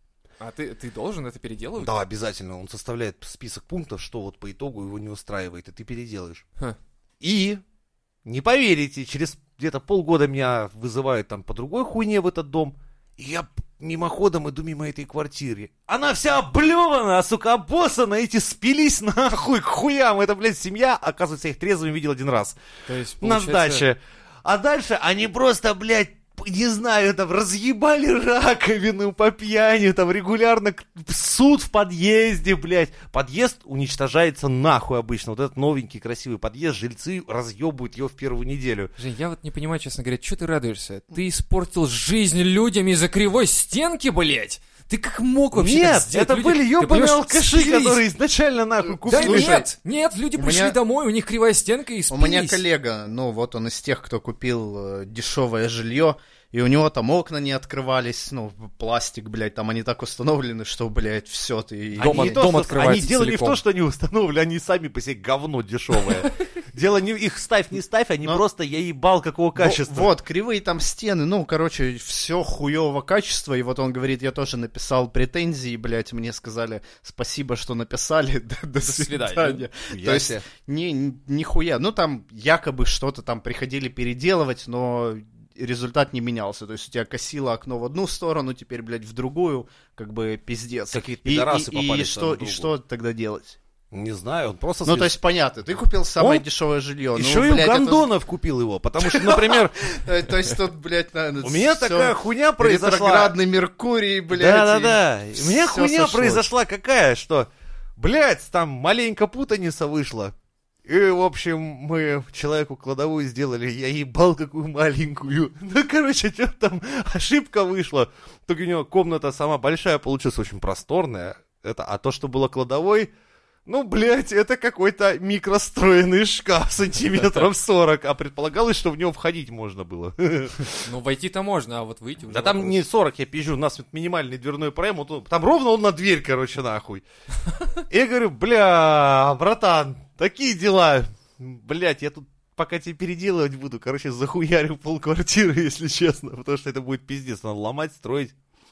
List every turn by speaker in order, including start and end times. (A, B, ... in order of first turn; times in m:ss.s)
0:00.4-0:02.0 A
0:01.8-0:06.4 B
0:07.2-0:07.6 B
0:08.2-0:22.6 B
0:22.9-0:23.9 A
0:23.2-0:38.9 B
0:39.0-0:48.0 A
0:45.5-0:49.6 B
0:49.0-0:49.7 C
0:49.1-0:52.6 A
0:50.4-0:50.8 C
0:52.1-1:02.4 C
1:02.0-1:10.1 B
1:02.0-1:03.6 A
1:09.6-1:33.6 C
1:18.8-1:19.7 A
1:19.9-1:20.4 B
1:30.9-1:32.7 B
1:33.9-1:35.1 B
1:34.8-1:38.1 C
1:36.2-1:36.5 B
1:37.1-1:39.9 B
1:39.0-1:46.5 C
1:41.4-1:43.4 B
1:44.3-1:50.3 B
1:50.9-2:03.1 B
2:03.7-2:10.8 B
2:07.2-2:07.5 A
2:10.8-2:12.8 A
2:12.3-2:17.0 B
2:17.9-2:28.3 B